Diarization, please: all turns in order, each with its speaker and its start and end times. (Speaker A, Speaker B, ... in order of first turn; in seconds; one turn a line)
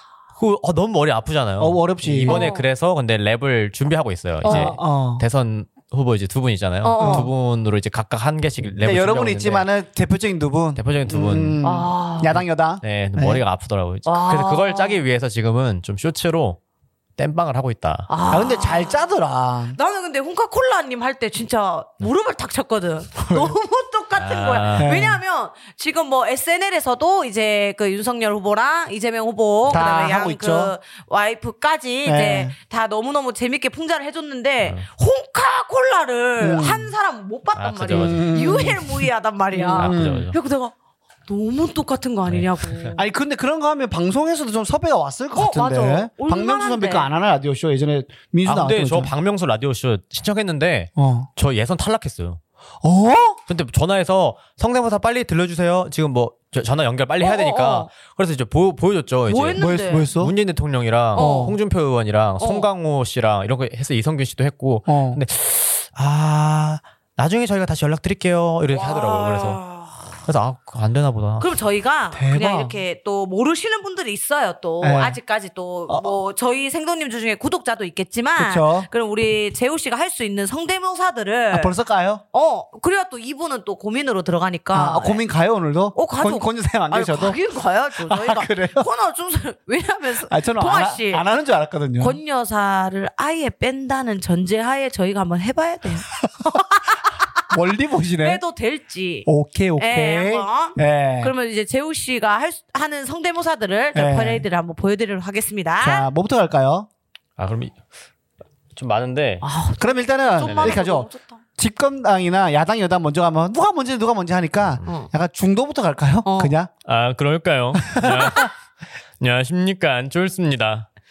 Speaker A: 0.4-9.7
Speaker B: 1.6-2.5
Speaker C: 2.3-2.7
Speaker C: 4.4-4.8
Speaker B: 4.4-5.2
Speaker C: 6.8-7.3
Speaker B: 7.0-7.3
Speaker B: 8.8-13.4
Speaker A: 10.8-11.6
Speaker C: 11.6-12.4
Speaker A: 12.8-16.6
Speaker C: 14.1-15.0
Speaker A: 17.2-18.1
Speaker C: 18.1-19.1
Speaker B: 18.3-19.8
Speaker C: 19.7-40.7
Speaker B: 23.3-23.6
Speaker A: 24.2-24.9
Speaker B: 24.8-25.2
Speaker B: 29.7-30.8
Speaker B: 32.0-32.5
Speaker B: 36.4-36.9
Speaker A: 37.6-38.3
Speaker B: 37.9-40.3
Speaker A: 39.8-40.4
Speaker C: 41.3-43.0
Speaker A: 42.3-42.9
Speaker B: 43.0-49.1
Speaker C: 45.4-47.1
Speaker A: 48.5-52.4
Speaker B: 51.0-51.3
Speaker B: 52.8-53.4
Speaker A: 53.5-69.6
Speaker C: 57.2-57.9
Speaker C: 59.3-60.1
Speaker B: 59.6-60.4
Speaker C: 61.2-61.6
Speaker B: 61.2-61.6
Speaker C: 62.4-62.7
Speaker B: 64.9-65.2
Speaker C: 68.7-70.1
Speaker A: 70.2-71.5
Speaker C: 71.4-81.7
Speaker B: 72.1-72.8
Speaker B: 74.8-75.2
Speaker B: 78.4-78.9
Speaker B: 81.5-82.2
Speaker C: 82.3-85.2
Speaker B: 84.7-87.4
Speaker C: 85.9-91.2
Speaker B: 88.0-88.9
Speaker B: 90.3-92.2
Speaker C: 92.0-97.2
Speaker B: 97.5-98.4
Speaker C: 98.2-106.1
Speaker B: 99.3-101.3
Speaker B: 104.0-104.5
Speaker B: 105.8-106.9
Speaker A: 107.4-107.8
Speaker A: 108.8-109.4
Speaker C: 109.4-111.4
Speaker B: 109.8-116.7
Speaker A: 110.4-110.8
Speaker C: 114.8-115.1
Speaker C: 116.2-116.5
Speaker A: 116.8-118.5
Speaker B: 117.8-118.5
Speaker A: 119.2-120.9